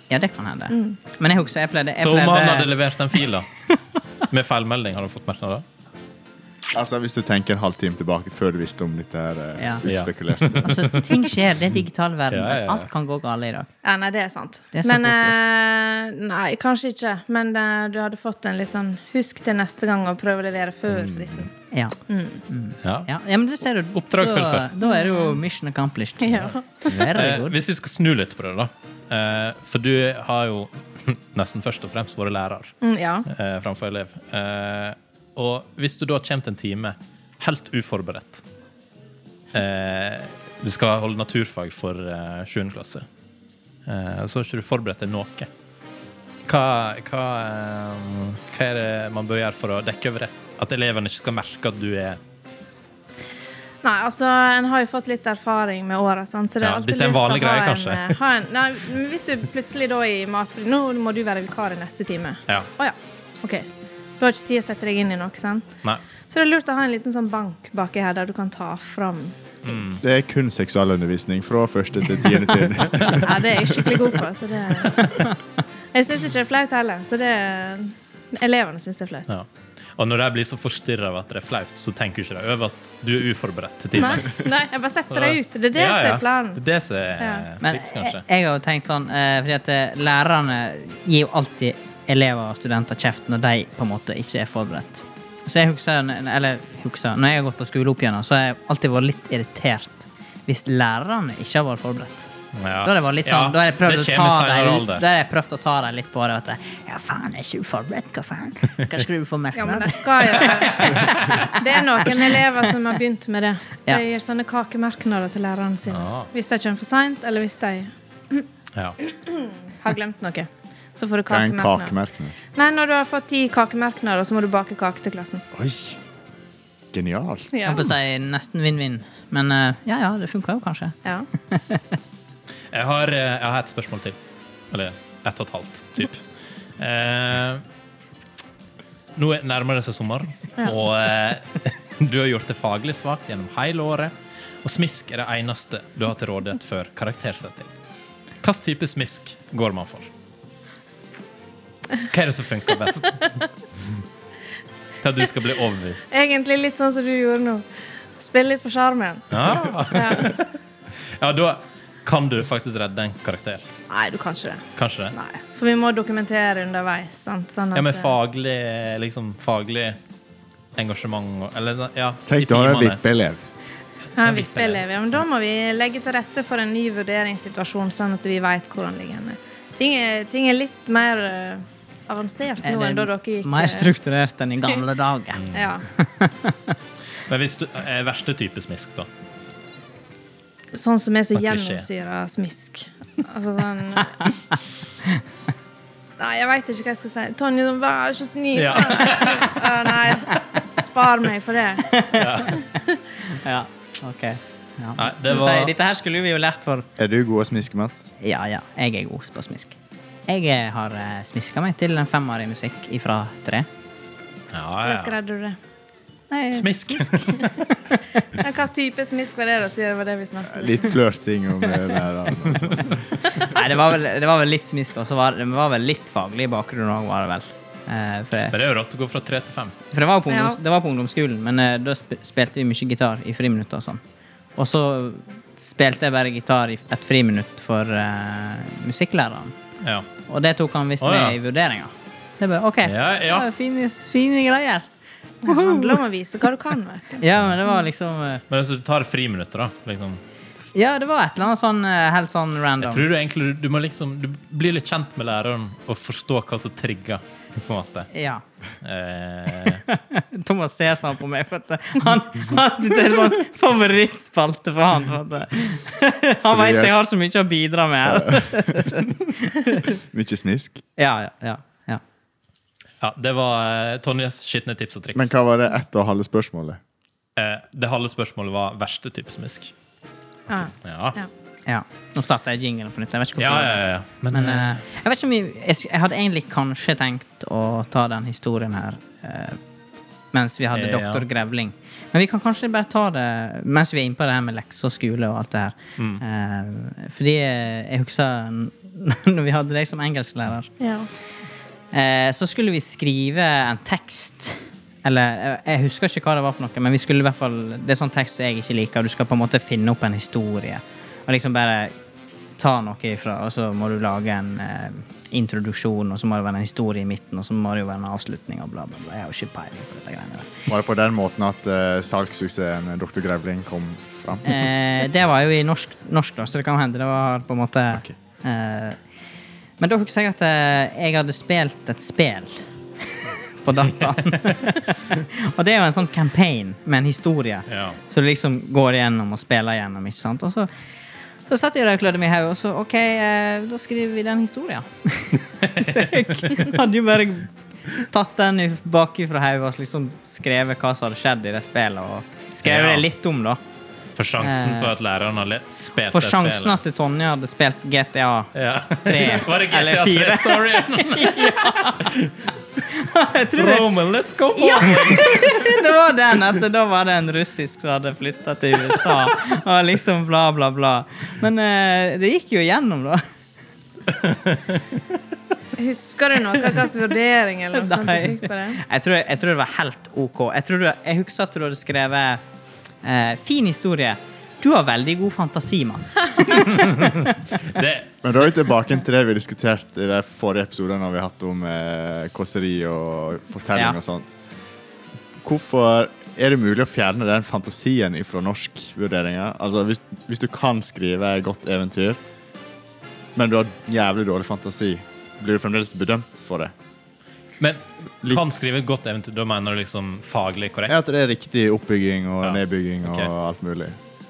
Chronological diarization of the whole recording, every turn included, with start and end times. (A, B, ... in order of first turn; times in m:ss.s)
0:00.1-0:02.7 A
0:00.7-0:01.0 B
0:02.0-0:03.5 C
0:04.3-0:05.6 C
0:06.7-0:10.8 D
0:09.6-0:09.8 A
0:09.9-0:11.3 C
0:10.6-0:13.7 A
0:12.3-0:12.9 C
0:13.8-0:21.5 B
0:14.7-0:15.4 A
0:20.9-0:21.5 C
0:21.7-0:22.0 A
0:22.1-0:22.4 B
0:22.5-0:27.6 A
0:22.8-0:23.1 C
0:24.0-0:24.7 C
0:24.8-0:25.4 B
0:26.2-0:26.9 B
0:26.9-0:38.4 C
0:32.8-0:33.3 B
0:39.5-0:43.1 C
0:43.9-0:45.5 C
0:46.5-0:52.2 C
0:53.8-1:03.7 B
0:56.6-0:58.2 C
1:04.2-1:05.7 B
1:06.3-1:09.8 B
1:09.6-1:10.0 C
1:10.0-1:14.0 D
1:13.0-1:13.3 C
1:13.1-1:15.3 B
1:15.9-1:19.3 B
1:19.3-1:24.4 C
1:24.0-1:26.6 B
1:25.1-1:28.2 C
1:27.2-1:27.5 B
1:27.6-1:42.3 A
1:42.6-1:45.0 C
1:42.8-1:52.4 A
1:49.6-1:58.5 B
1:50.8-1:51.3 C
1:55.9-1:56.3 C
1:59.0-2:01.9 B
2:01.3-2:02.3 D
2:02.5-2:05.4 B
2:05.5-2:06.0 D
2:06.9-2:07.8 D
2:07.5-2:07.9 B
2:07.6-2:12.0 A
2:12.7-2:14.2 C
2:14.7-2:16.2 C
2:16.8-2:17.6 C
2:19.2-2:27.7 C
2:28.4-2:30.1 C
2:32.0-2:33.4 C
2:35.0-2:36.1 C
2:36.1-2:39.3 B
2:39.3-2:43.7 C
2:39.9-2:40.4 B
2:43.9-2:48.1 B
2:44.8-2:45.2 C
2:47.7-2:50.0 C
2:50.8-2:53.0 C
2:52.3-2:53.4 D
2:54.2-3:03.9 B
2:54.2-2:54.8 C
3:02.6-3:06.8 A
3:05.4-3:05.7 C
3:05.5-3:05.8 B
3:07.3-3:09.1 C
3:10.7-3:14.3 B
3:11.3-3:11.9 C
3:16.2-3:22.0 B
3:18.6-3:19.7 C
3:21.8-3:22.6 A
3:22.1-3:22.6 C
3:23.3-3:26.9 A
3:25.0-3:25.7 C
3:27.0-3:28.1 D
3:28.2-3:33.7 A
3:34.5-3:35.2 C
3:34.8-3:35.6 B
3:36.3-3:38.3 A
3:36.5-3:37.6 C
3:38.4-3:41.0 B
3:40.5-3:43.2 D
3:43.4-3:48.6 A
3:48.5-3:49.8 C
3:49.9-3:54.0 A
3:50.3-3:50.6 B
3:54.6-3:59.6 A
3:59.8-4:00.1 C
4:00.3-4:04.9 A
4:01.0-4:01.4 C
4:02.8-4:03.5 C
4:05.4-4:06.0 A
4:05.4-4:07.2 B
4:07.2-4:08.4 A
4:08.5-4:10.2 C
4:10.7-4:13.1 A
4:12.8-4:18.1 C
4:18.1-4:18.4 A
4:18.8-4:19.8 C
4:19.6-4:29.9 A
4:26.4-4:27.0 D
4:28.1-4:28.9 D
4:29.9-4:30.8 D
4:31.0-4:32.0 A
4:33.0-4:35.3 C
4:35.2-4:36.8 D
4:37.4-4:39.7 C
4:40.5-4:41.3 B
4:40.8-4:41.2 C
4:41.7-4:49.6 A
4:43.4-4:44.8 C
4:50.3-5:00.7 A
4:50.7-4:51.2 C
5:00.8-5:01.1 B
5:01.9-5:11.9 A
5:12.6-5:20.5 A
5:20.7-5:24.6 D
5:24.4-5:29.0 A
5:29.8-5:40.7 A
5:34.0-5:34.6 C
5:37.7-5:38.0 C
5:41.5-5:53.6 A
5:45.6-5:46.7 C
5:52.6-5:53.0 C
5:54.2-5:56.8 C
5:54.4-5:54.9 A
5:56.1-6:02.2 A
5:58.6-6:02.5 C
6:02.8-6:03.9 A
6:03.5-6:05.8 C
6:04.5-6:13.2 A
6:14.2-6:14.8 C
6:15.8-6:18.8 B
6:17.7-6:22.4 A
6:23.0-6:27.4 A
6:26.8-6:28.2 C
6:28.2-6:34.3 D
6:35.4-6:42.2 D
6:43.4-6:46.7 D
6:47.6-6:51.0 C
6:50.9-6:54.0 D
6:52.4-6:53.3 C